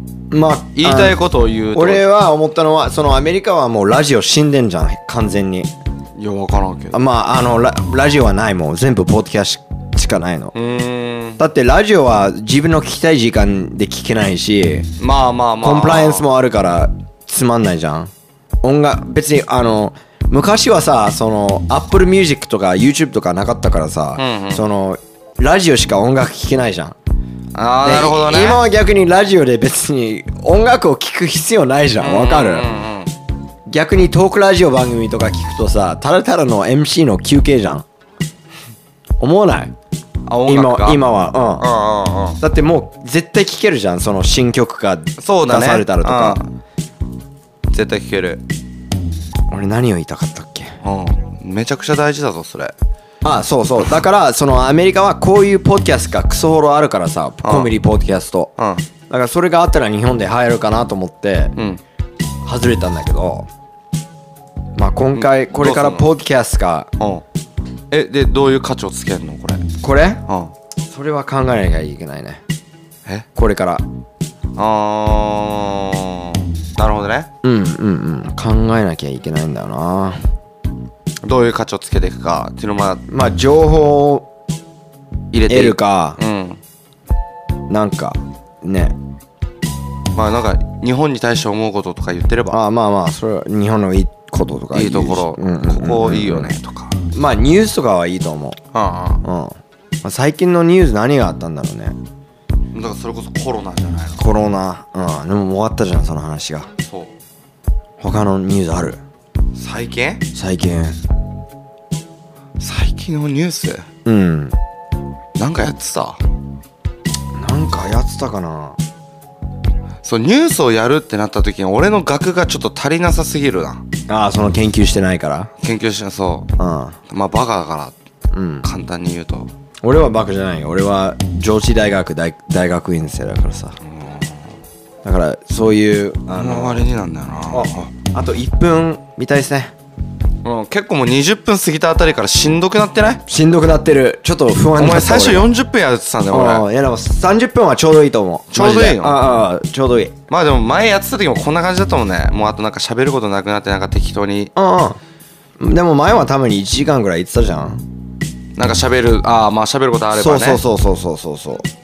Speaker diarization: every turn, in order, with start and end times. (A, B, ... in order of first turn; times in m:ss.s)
0:00.3-0:01.2 A
0:00.7-0:02.1 B
0:01.7-0:05.7 A
0:06.2-0:07.0 B
0:06.9-0:10.5 A
0:10.5-0:11.4 B
0:11.4-0:14.9 A
0:15.0-0:16.2 B
0:15.6-0:18.1 A
0:18.6-0:27.0 A
0:24.2-0:24.6 B
0:27.5-0:28.6 B
0:27.8-0:32.7 A
0:32.0-0:33.1 B
0:33.7-0:37.8 A
0:39.2-0:39.7 A
0:40.3-0:41.0 B
0:40.5-0:41.7 A
0:41.6-0:42.4 B
0:42.4-0:46.4 A
0:45.2-0:46.5 B
0:47.7-0:48.4 B
0:49.5-0:50.7 A
0:50.8-0:52.7 B
0:53.2-0:58.5 A
0:57.4-0:57.7 B
0:58.6-0:58.8 B
0:59.1-1:01.6 A
1:02.4-1:03.5 A
1:04.8-1:06.9 A
1:05.1-1:06.1 B
1:07.0-1:07.2 B
1:07.9-1:09.6 B
1:09.8-1:10.2 A
1:10.3-1:10.5 B
1:10.9-1:12.4 A
1:13.4-1:13.8 A
1:14.6-1:17.3 B
1:17.4-1:20.2 A
1:21.2-1:23.0 B
1:23.1-1:24.3 A
1:25.3-1:26.6 B
1:25.5-1:26.2 A
1:27.7-1:29.0 A
1:30.1-1:32.6 B
1:32.5-1:36.5 A
1:34.7-1:37.0 B
1:37.1-1:38.6 A
1:38.7-1:39.2 B
1:39.2-1:42.0 A
1:42.7-1:44.2 B
1:44.2-1:46.7 A
1:46.8-1:47.1 B
1:48.0-1:49.0 A
1:49.6-1:50.2 B
1:50.3-1:51.0 A
1:52.6-1:53.9 B
1:54.0-1:54.6 A
1:55.4-1:56.2 B
1:57.4-1:58.8 A
2:00.0-2:03.8 B
2:04.1-2:05.5 A
2:05.6-2:06.5 B
2:06.6-2:07.0 A
2:07.1-2:07.9 B
2:08.3-2:08.6 A
2:08.6-2:09.5 B
2:09.8-2:13.8 A
2:13.8-2:14.4 B
2:15.0-2:16.8 A
2:16.3-2:17.9 B
2:17.5-2:19.7 A
2:20.4-2:23.2 B
2:23.3-2:25.5 A
2:24.8-2:26.6 B
2:26.3-2:30.2 A
2:28.5-2:29.3 B
2:30.3-2:34.5 B
2:34.6-2:35.0 A
2:35.6-2:37.8 A
2:38.6-2:40.6 B
2:40.1-2:41.6 A